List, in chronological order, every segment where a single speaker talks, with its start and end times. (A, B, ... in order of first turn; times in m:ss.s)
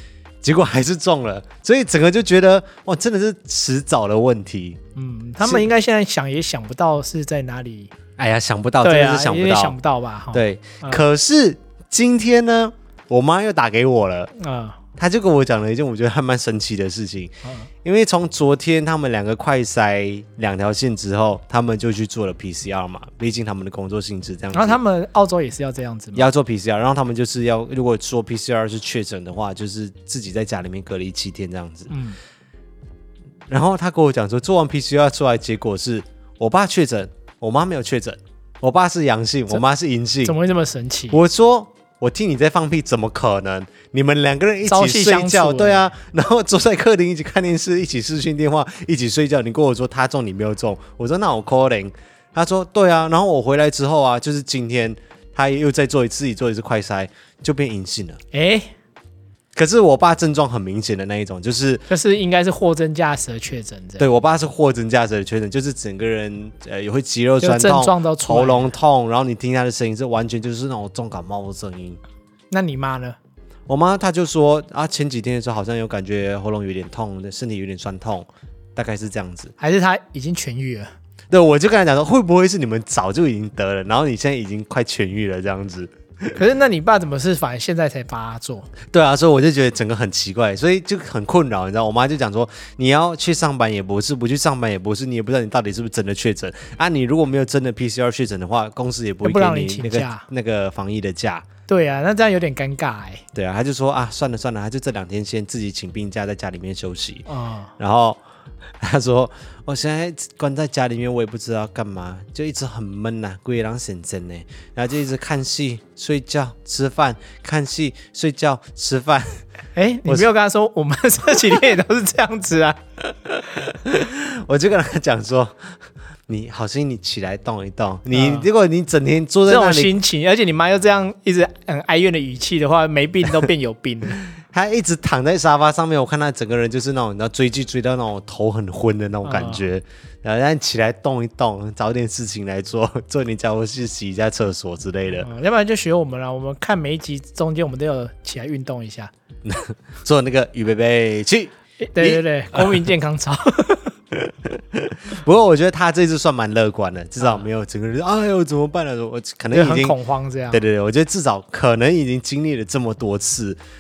0:00.4-0:04.8 A
0:05.0-0:07.9 B
0:08.2-0:09.8 A
0:08.8-0:11.0 B
0:10.3-0:14.3 A
0:14.4-0:14.8 B
0:15.0-0:17.3 A
0:17.4-0:17.7 B
0:17.8-0:24.8 A
0:24.5-0:26.3 B
0:26.2-0:31.9 A
0:31.9-0:32.2 B
0:33.5-0:40.4 A
0:40.2-0:41.2 B
0:41.1-0:58.2 A
0:44.7-0:45.9 B
0:58.3-0:58.7 B
0:59.6-1:01.9 A
1:01.9-1:04.1 B
1:04.0-1:12.0 A
1:07.4-1:08.7 B
1:12.5-1:13.2 B
1:13.7-1:19.5 A
1:19.6-1:20.9 B
1:21.3-1:26.4 A
1:26.4-1:28.7 B
1:28.9-1:41.5 A
1:39.2-1:40.2 B
1:41.7-1:43.2 B
1:43.3-1:47.3 A
1:47.3-1:47.7 B
1:47.8-1:48.2 A
1:48.8-1:59.4 A
1:59.8-2:02.8 B
2:03.2-2:05.6 A
2:06.3-2:09.9 A
2:08.1-2:08.5 B
2:09.5-2:14.2 B
2:14.2-2:25.3 A
2:19.2-2:19.7 B
2:25.2-2:29.1 B
2:29.4-2:32.8 A
2:31.8-2:34.0 B
2:34.1-2:40.0 A
2:39.5-2:40.6 B
2:40.5-2:43.6 A